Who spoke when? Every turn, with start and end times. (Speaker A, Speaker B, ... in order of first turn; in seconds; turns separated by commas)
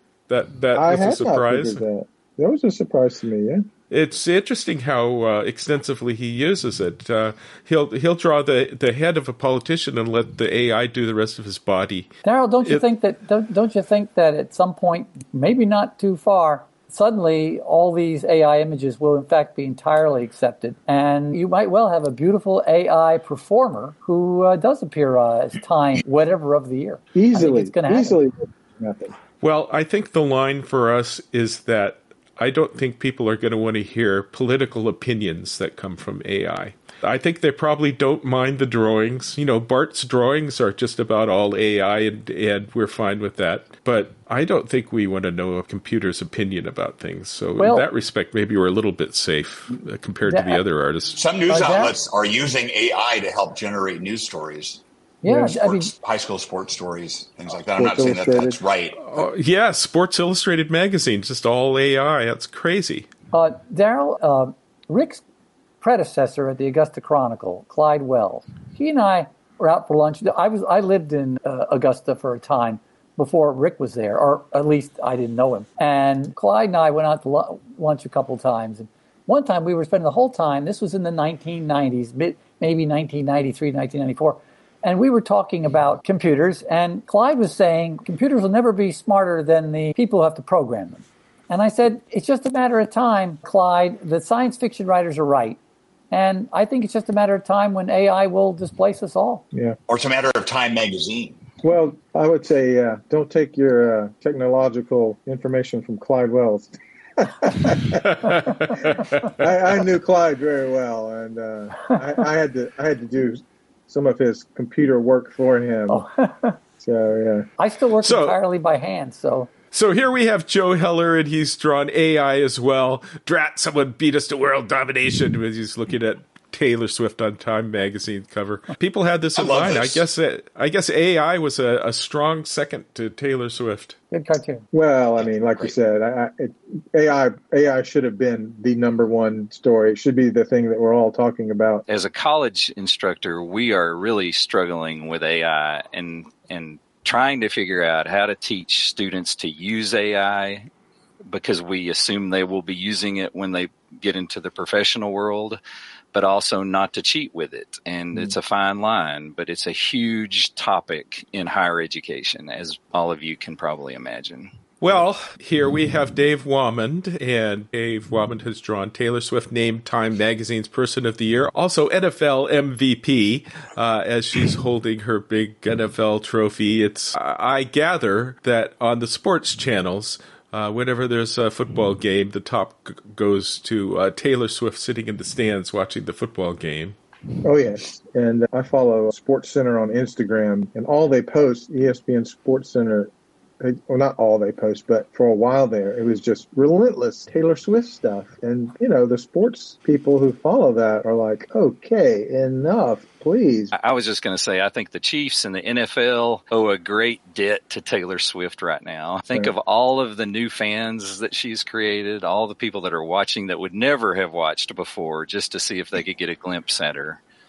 Speaker A: 0.3-1.8, Speaker B: 0.7-3.7, Speaker A: 3.9-12.1, Speaker C: 12.2-28.2, Speaker B: 27.1-29.2, Speaker A: 29.4-51.2, Speaker C: 47.6-47.9, Speaker C: 50.3-50.6, Speaker D: 51.2-54.8, Speaker C: 51.5-51.9, Speaker C: 55.2-55.9, Speaker B: 55.3-55.5, Speaker D: 55.5-59.2, Speaker B: 57.8-58.6, Speaker A: 59.0-63.1, Speaker C: 63.3-65.2, Speaker C: 65.8-95.6, Speaker C: 96.1-99.4, Speaker D: 99.9-101.4, Speaker B: 101.6-108.2, Speaker A: 107.9-109.4, Speaker B: 109.3-116.0, Speaker C: 115.9-116.6, Speaker B: 116.8-117.5, Speaker C: 117.6-119.5, Speaker A: 118.0-118.4, Speaker A: 119.7-134.0, Speaker D: 129.3-130.1, Speaker C: 134.1-134.7, Speaker B: 134.7-141.8, Speaker E: 141.9-150.7, Speaker E: 151.3-155.6, Speaker E: 156.1-165.0, Speaker A: 164.8-187.0, Speaker B: 187.4-203.7, Speaker E: 203.7-217.2